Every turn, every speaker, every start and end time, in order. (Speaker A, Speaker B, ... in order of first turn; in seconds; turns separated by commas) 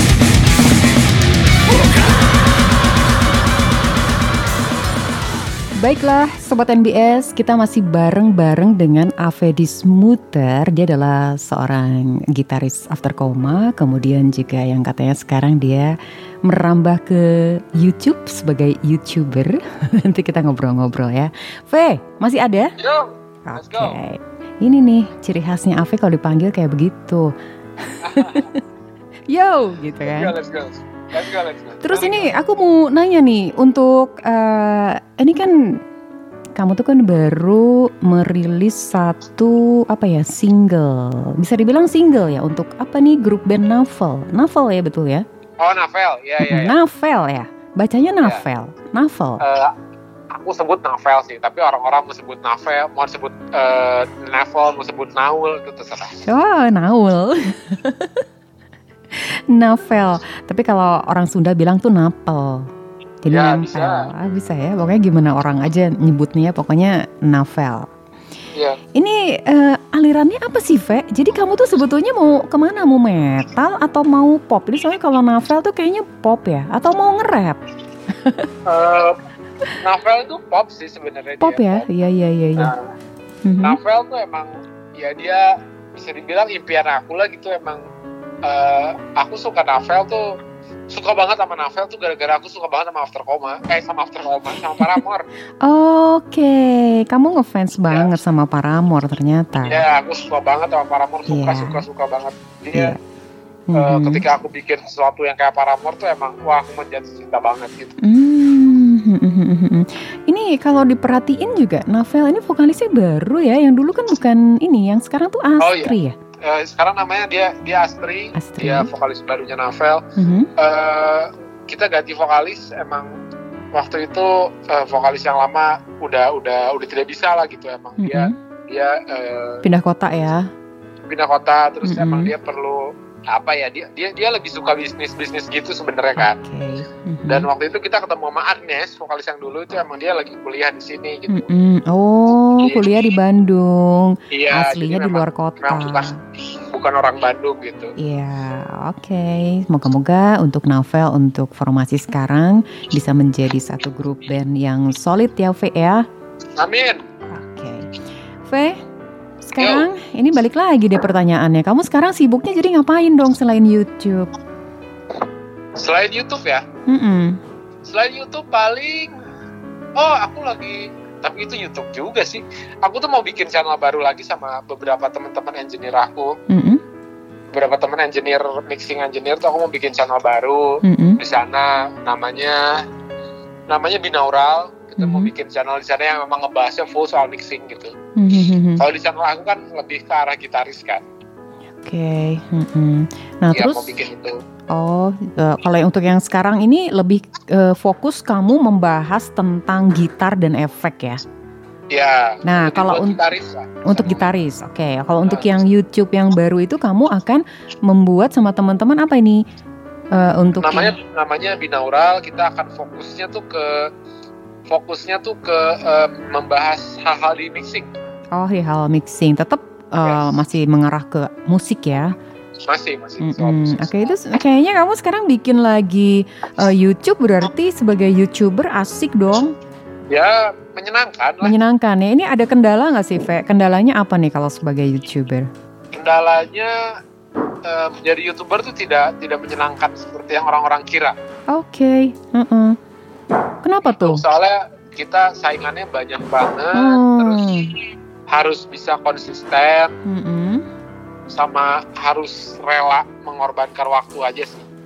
Speaker A: 5.8-22.7, Speaker B: 22.8-24.0, Speaker A: 23.5-28.6, Speaker B: 28.0-28.5, Speaker A: 29.3-30.3, Speaker B: 30.1-32.3, Speaker A: 31.8-35.8, Speaker A: 36.5-45.2, Speaker B: 45.6-46.7, Speaker A: 46.4-49.4, Speaker B: 49.4-49.7, Speaker B: 50.3-56.2, Speaker A: 56.2-58.2, Speaker A: 59.1-62.7, Speaker A: 63.2-67.9, Speaker B: 63.3-64.1, Speaker A: 68.9-77.6, Speaker A: 78.2-78.5, Speaker B: 78.7-79.2, Speaker B: 79.8-81.8, Speaker A: 81.4-82.7, Speaker B: 82.6-82.9, Speaker A: 83.4-83.8, Speaker B: 83.6-87.8, Speaker B: 88.4-90.3, Speaker B: 90.9-95.2, Speaker A: 95.6-99.8, Speaker B: 97.9-98.1, Speaker B: 99.6-102.9, Speaker A: 101.3-101.8, Speaker A: 102.7-103.0, Speaker A: 103.7-104.2, Speaker B: 103.7-107.9, Speaker A: 108.0-116.2, Speaker B: 115.6-120.0, Speaker A: 118.3-118.9, Speaker A: 120.2-120.5, Speaker B: 120.6-123.1, Speaker B: 123.7-129.6, Speaker A: 128.0-128.3, Speaker A: 129.6-130.5, Speaker B: 131.1-136.4, Speaker A: 131.8-132.3, Speaker A: 136.2-137.5, Speaker B: 137.3-141.4, Speaker A: 141.3-146.2, Speaker B: 142.6-142.8, Speaker B: 144.3-147.9, Speaker A: 148.0-156.0, Speaker B: 156.6-157.0, Speaker A: 157.3-157.9, Speaker A: 158.4-158.8, Speaker A: 159.4-164.3, Speaker B: 159.6-159.8, Speaker B: 165.8-166.6, Speaker A: 166.9-167.4, Speaker B: 167.8-169.1, Speaker B: 169.9-176.3, Speaker A: 176.5-176.8, Speaker B: 177.5-182.7, Speaker A: 180.8-181.2, Speaker B: 183.7-187.9, Speaker A: 185.0-185.3, Speaker A: 188.2-188.8, Speaker B: 188.8-191.0, Speaker A: 191.8-193.8, Speaker B: 193.5-194.4, Speaker A: 194.7-201.2, Speaker B: 201.9-204.3, Speaker A: 202.4-203.2, Speaker A: 203.8-209.4, Speaker B: 205.2-205.5, Speaker A: 210.1-210.9, Speaker B: 210.6-213.9, Speaker B: 214.7-217.9, Speaker A: 218.3-222.2, Speaker B: 220.0-220.3, Speaker B: 222.7-224.1, Speaker A: 223.2-229.5, Speaker B: 230.1-231.5, Speaker A: 231.4-235.5, Speaker B: 235.9-236.7, Speaker B: 237.6-241.1, Speaker A: 241.5-242.8, Speaker A: 243.6-244.2, Speaker B: 243.9-247.4, Speaker A: 246.7-247.7, Speaker B: 248.3-249.9, Speaker A: 250.0-250.6, Speaker B: 251.3-254.7